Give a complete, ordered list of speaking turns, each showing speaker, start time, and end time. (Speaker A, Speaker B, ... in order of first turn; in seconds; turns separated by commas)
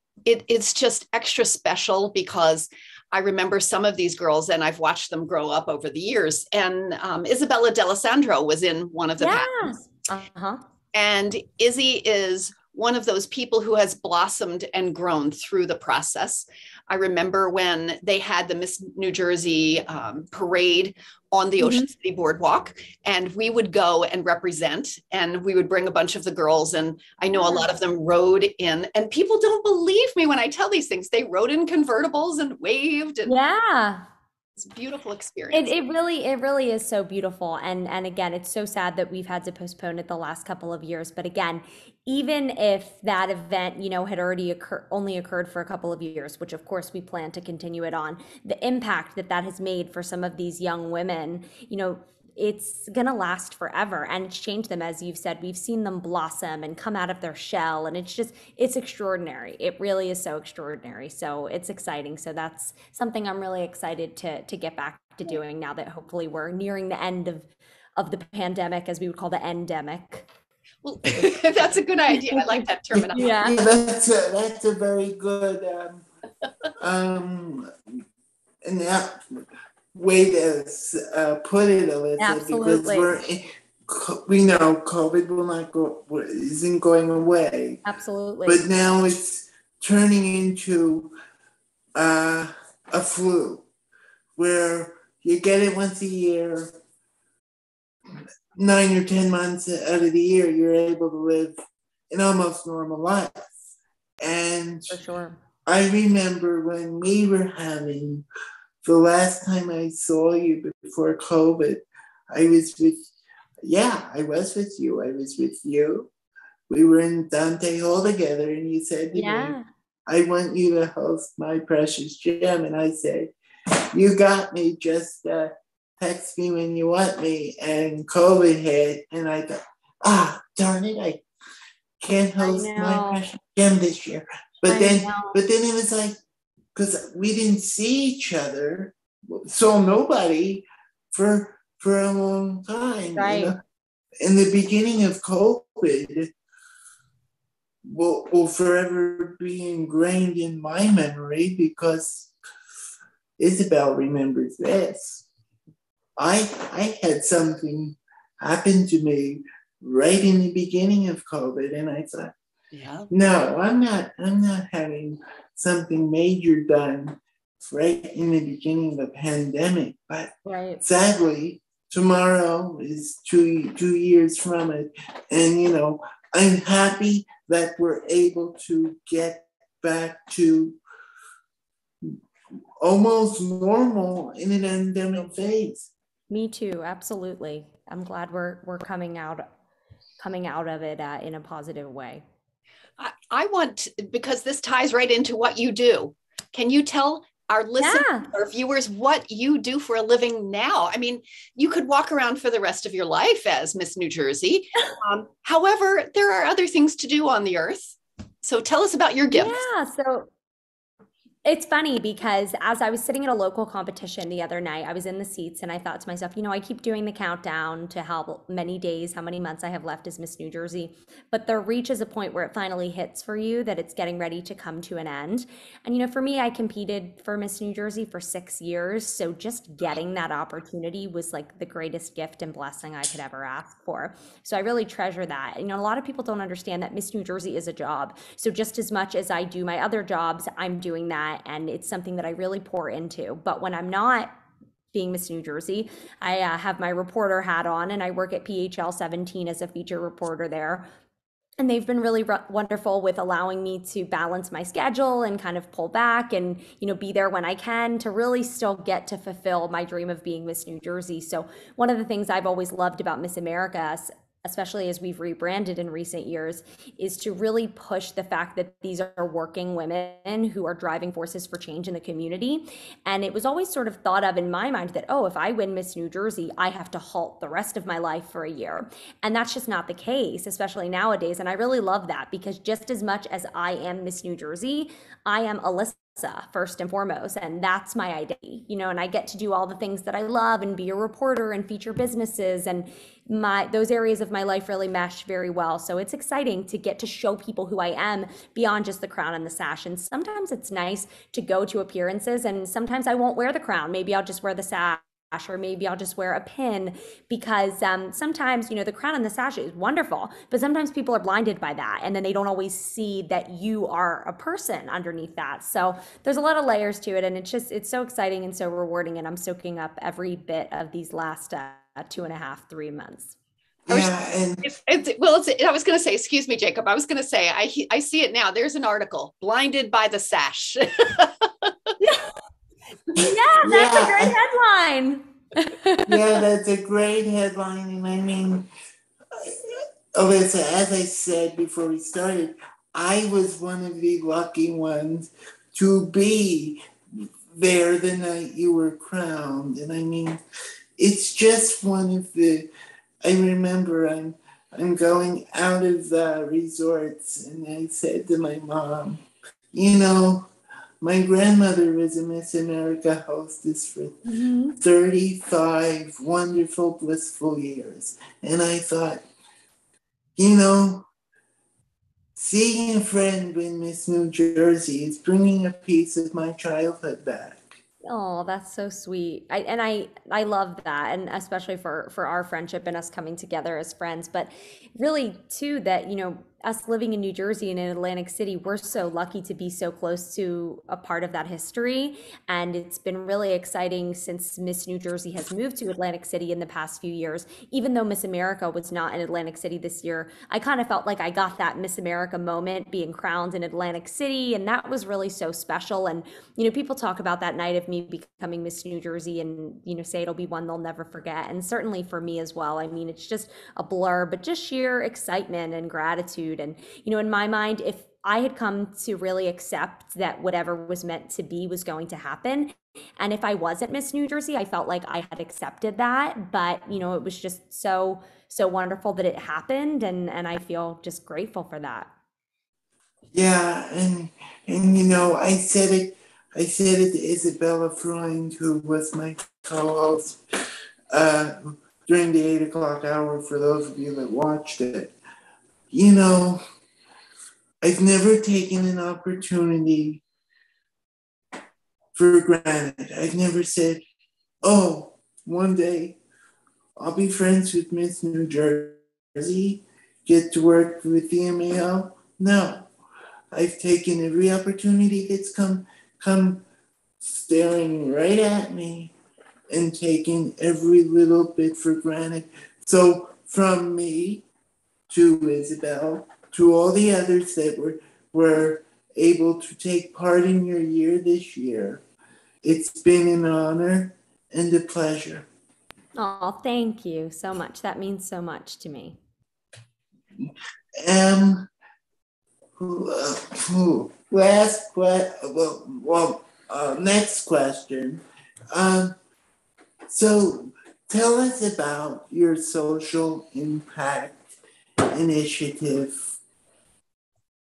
Speaker A: 0.2-9.7, Speaker B: 9.2-10.6, Speaker A: 10.9-33.3, Speaker B: 21.6-21.9, Speaker B: 27.3-27.7, Speaker B: 33.2-34.0, Speaker A: 34.6-35.7, Speaker B: 35.5-70.2, Speaker A: 70.8-73.4, Speaker B: 72.1-73.5, Speaker C: 73.0-76.0, Speaker C: 76.8-77.7, Speaker C: 78.6-79.2, Speaker C: 79.9-87.8, Speaker B: 82.2-83.1, Speaker B: 87.8-88.6, Speaker C: 88.4-91.1, Speaker C: 92.0-93.7, Speaker C: 94.4-96.7, Speaker C: 98.5-101.5, Speaker C: 102.1-105.0, Speaker B: 104.9-105.4, Speaker C: 105.7-108.2, Speaker C: 108.8-113.0, Speaker C: 113.6-116.1, Speaker C: 116.7-123.3, Speaker B: 119.1-119.7, Speaker C: 123.9-131.2, Speaker C: 132.0-136.1, Speaker B: 132.4-133.2, Speaker B: 134.7-135.3, Speaker C: 136.7-143.6, Speaker B: 143.2-143.5, Speaker C: 144.2-146.3, Speaker C: 147.8-152.3, Speaker C: 153.4-155.2, Speaker C: 156.2-162.3, Speaker A: 162.7-163.1, Speaker C: 163.1-180.8, Speaker B: 170.4-170.8, Speaker C: 182.8-185.9, Speaker B: 186.3-189.4, Speaker B: 190.2-192.2, Speaker A: 193.0-209.6, Speaker B: 197.8-198.3, Speaker B: 209.3-210.3, Speaker B: 211.4-244.3, Speaker B: 244.9-250.9, Speaker B: 251.6-323.4, Speaker C: 323.9-324.6, Speaker A: 323.9-331.9, Speaker B: 332.0-332.3, Speaker B: 333.1-336.4, Speaker C: 333.2-334.4, Speaker C: 336.1-338.7, Speaker C: 339.4-346.8, Speaker C: 347.5-350.4, Speaker C: 351.0-352.7, Speaker C: 353.2-360.5, Speaker C: 361.0-364.2, Speaker B: 364.3-364.8, Speaker C: 364.8-369.2, Speaker C: 370.4-371.1, Speaker C: 372.4-377.8, Speaker B: 378.0-432.1, Speaker C: 433.3-440.4, Speaker C: 441.1-445.1, Speaker C: 445.9-446.6, Speaker C: 447.8-450.2, Speaker C: 452.1-454.0, Speaker C: 454.6-456.2, Speaker C: 457.0-462.9, Speaker C: 463.5-466.6, Speaker C: 467.2-469.1, Speaker C: 469.7-474.4, Speaker C: 475.1-482.0, Speaker C: 482.6-485.4, Speaker B: 486.1-489.2, Speaker C: 491.0-491.7, Speaker C: 492.8-499.1, Speaker C: 500.1-504.4, Speaker C: 505.1-506.4